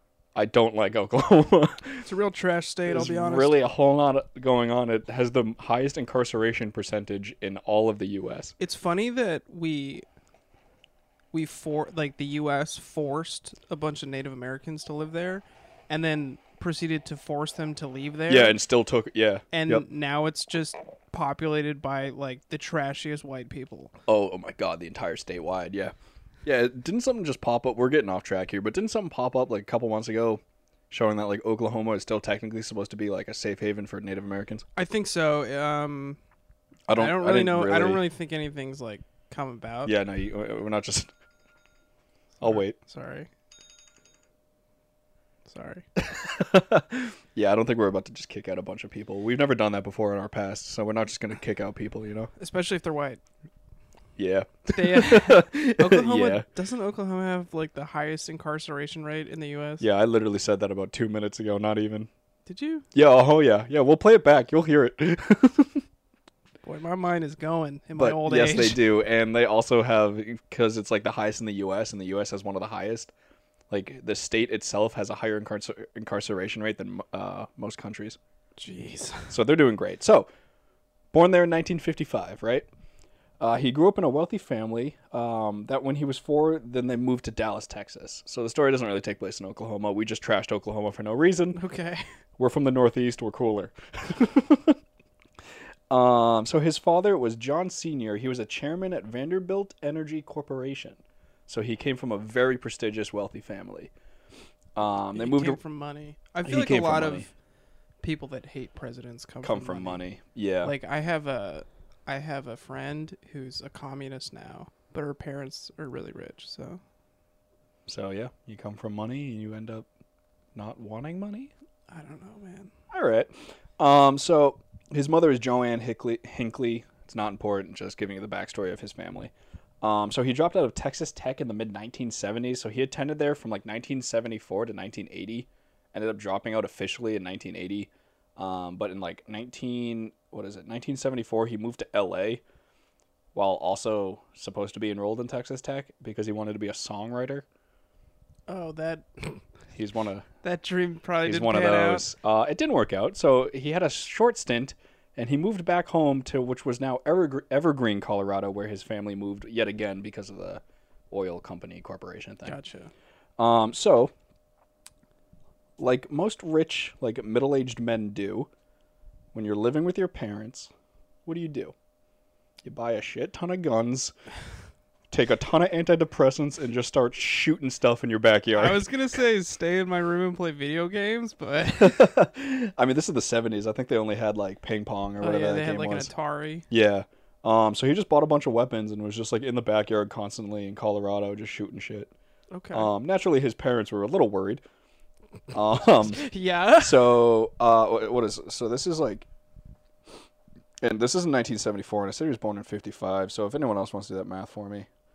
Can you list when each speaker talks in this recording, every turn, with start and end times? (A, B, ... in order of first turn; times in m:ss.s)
0:00.3-0:02.1 A
0:02.0-0:03.6 B
0:02.9-0:08.5 A
0:08.6-0:10.0 B
0:11.3-0:18.6 B
0:18.3-0:19.8 A
0:19.5-0:23.9 B
0:24.1-0:34.6 A
0:34.8-0:36.2 B
0:36.9-0:38.0 A
0:37.0-0:39.9 B
0:39.8-0:41.1 A
0:42.4-0:43.3 B
0:42.4-0:42.8 A
0:45.4-0:45.8 B
0:46.0-0:52.3 A
0:52.4-0:53.2 B
0:54.2-0:56.4 A
0:54.7-0:59.8 B
0:59.8-1:02.1 A
1:02.4-1:02.8 B
1:02.9-1:05.8 A
1:06.6-1:08.8 B
1:08.0-1:13.1 A
1:13.7-1:18.2 A
1:18.6-1:19.3 B
1:19.3-1:20.3 A
1:21.1-1:22.7 A
1:23.4-1:31.6 A
1:31.5-1:32.0 B
1:32.4-1:34.8 A
1:35.9-1:43.9 A
1:44.8-1:45.6 A
1:45.1-1:47.3 B
1:46.4-1:47.3 A
1:48.0-1:50.0 B
1:49.4-1:50.7 A
1:50.6-1:56.8 B
1:57.9-1:59.8 A
2:00.5-2:01.5 A
2:01.9-2:02.7 B
2:02.9-2:22.4 A
2:23.3-2:27.4 A
2:28.5-2:29.4 B
2:29.8-2:30.2 A
2:30.4-2:32.1 B
2:31.2-2:42.6 A
2:42.4-2:42.9 B
2:43.4-2:44.1 A
2:45.8-2:48.5 A
2:49.3-2:50.7 A
2:51.2-2:51.7 A
2:52.6-2:54.1 A
2:55.1-2:58.8 A
2:58.6-3:02.1 B
3:01.7-3:06.1 A
3:05.2-3:06.6 B
3:06.7-3:12.1 A
3:12.5-3:12.9 B
3:12.7-3:14.6 A
3:15.5-3:16.2 A
3:16.0-3:17.2 B
3:16.8-3:19.3 A
3:20.8-3:24.9 A